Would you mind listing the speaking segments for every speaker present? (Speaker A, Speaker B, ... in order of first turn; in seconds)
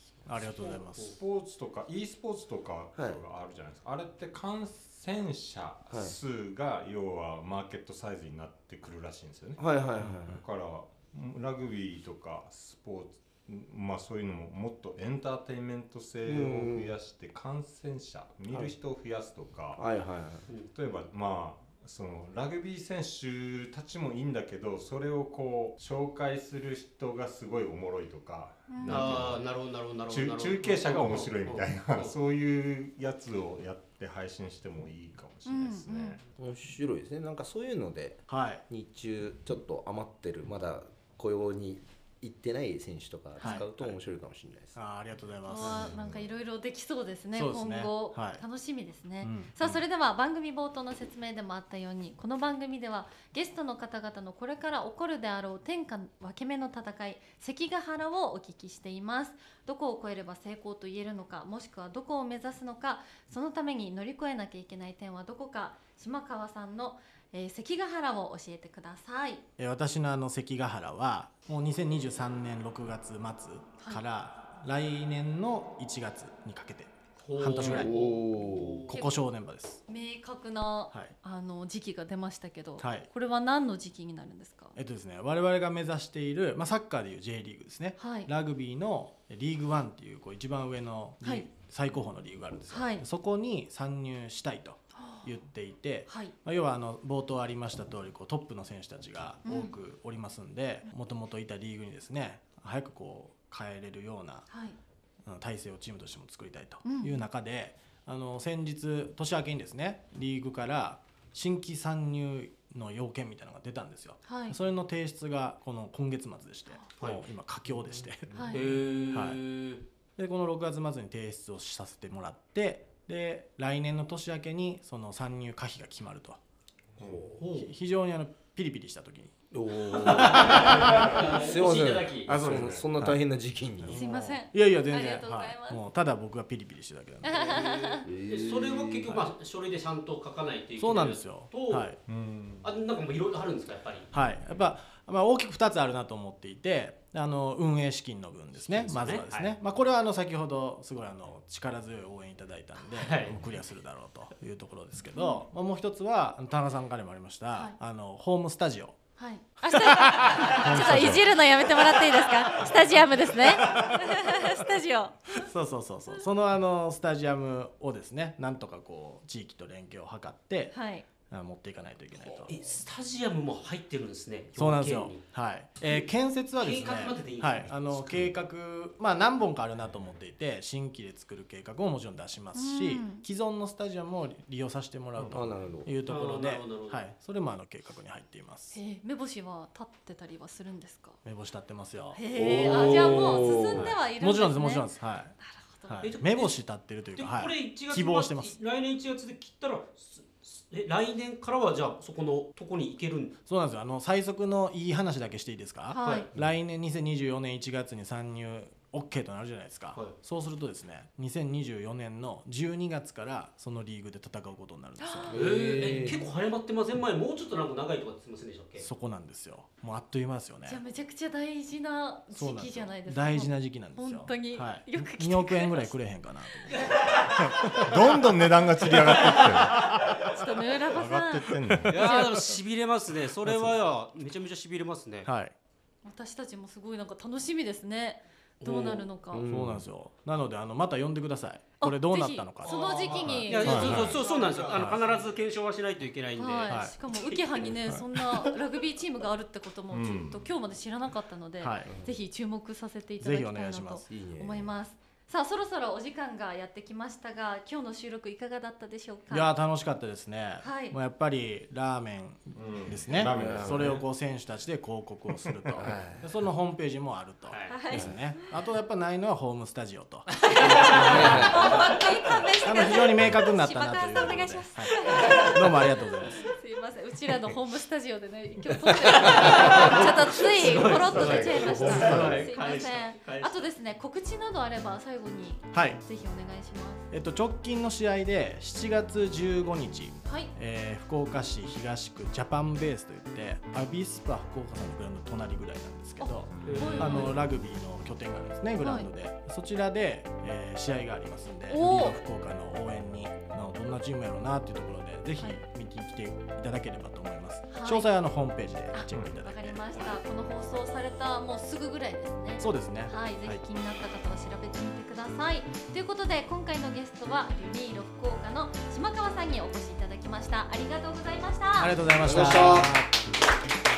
Speaker A: 0.2-19.8, 20.7-29.5, 30.1-36.2, 45.8-46.3, 127.0-127.3, 132.3-132.9, 142.1-142.7, 227.6-230.3, 230.8-232.0, 243.5-244.7, 249.9-250.4, 262.5-264.0, 265.4-266.1, 280.7-282.4, 296.6-297.0
Speaker B: 0.2-1.2, 38.3-38.6, 43.4-43.9, 44.7-45.9, 47.3-48.4, 49.2-49.6, 69.6-78.0, 78.9-79.8, 82.8-83.1, 84.8-104.5, 105.2-119.4, 120.2-126.4, 127.4-129.3, 129.9-131.2, 132.2-133.2, 133.8-137.7, 140.8-142.0, 144.1-159.0, 159.6-164.6, 165.3-172.6, 174.6-188.8, 191.2-192.2, 192.9-193.2, 193.8-198.6, 203.4-215.5, 218.8-220.8, 222.3-227.1, 227.6-230.3, 231.5-232.6, 233.4-233.7, 235.2-235.5, 239.5-244.2, 244.7-245.0, 246.7-246.9, 247.9-248.5, 251.6-251.9, 253.2-254.1, 259.3-272.0, 272.6-276.4, 281.9-282.5, 285.7-286.0, 287.1-309.9, 312.6-313.6, 321.8-323.2
Speaker C: 0.6-1.1, 28.9-32.1, 77.2-79.0, 117.0-117.2, 118.5-119.8, 129.9-132.7, 137.4-141.9, 142.6-144.1, 148.6-149.6, 152.9-153.4, 172.3-175.2, 176.6-178.3, 186.0-187.1, 192.5-193.9, 196.0-196.6, 197.1-203.4, 206.0-206.3, 215.3-218.9, 226.7-227.7, 231.9-235.3, 238.6-239.1, 242.6-246.8, 247.3-247.7, 267.4-267.8, 270.8-271.4, 279.0-283.7, 296.6-297.4
Speaker D: 5.9-6.2, 9.6-10.4, 16.2-16.9, 19.8-20.5, 36.4-44.8, 45.6-45.9, 77.6-78.9, 117.7-118.5, 127.0-127.2, 129.5-134.1, 138.0-139.2, 185.3-185.9, 192.3-193.9, 215.3-216.3, 239.3-239.8, 244.2-244.8, 254.1-254.7, 263.3-264.0, 265.8-266.3, 267.9-268.1, 270.6-271.7, 279.4-279.9, 281.8-282.0, 322.2-322.9
Speaker E: 28.7-29.2, 35.4-36.2, 43.4-43.6, 45.5-69.4, 73.8-74.0, 78.9-79.3, 79.9-84.8, 88.0-88.3, 91.2-91.5, 92.7-93.1, 94.9-95.3, 96.1-96.3, 99.4-99.7, 104.5-104.8, 106.8-107.2, 114.2-114.6, 118.3-118.7, 133.9-135.8, 137.2-138.1, 155.1-155.4, 159.2-165.5, 170.7-171.1, 182.5-183.2, 188.7-191.2, 192.1-196.1, 205.9-206.3, 215.0-215.4, 220.6-225.9, 230.2-232.4, 236.0-239.4, 241.8-244.0, 246.3-259.5, 260.6-260.9, 267.7-268.5, 270.3-287.1, 290.2-290.5, 296.2-297.4, 298.8-299.1, 301.7-302.2, 307.7-308.1, 308.9-322.0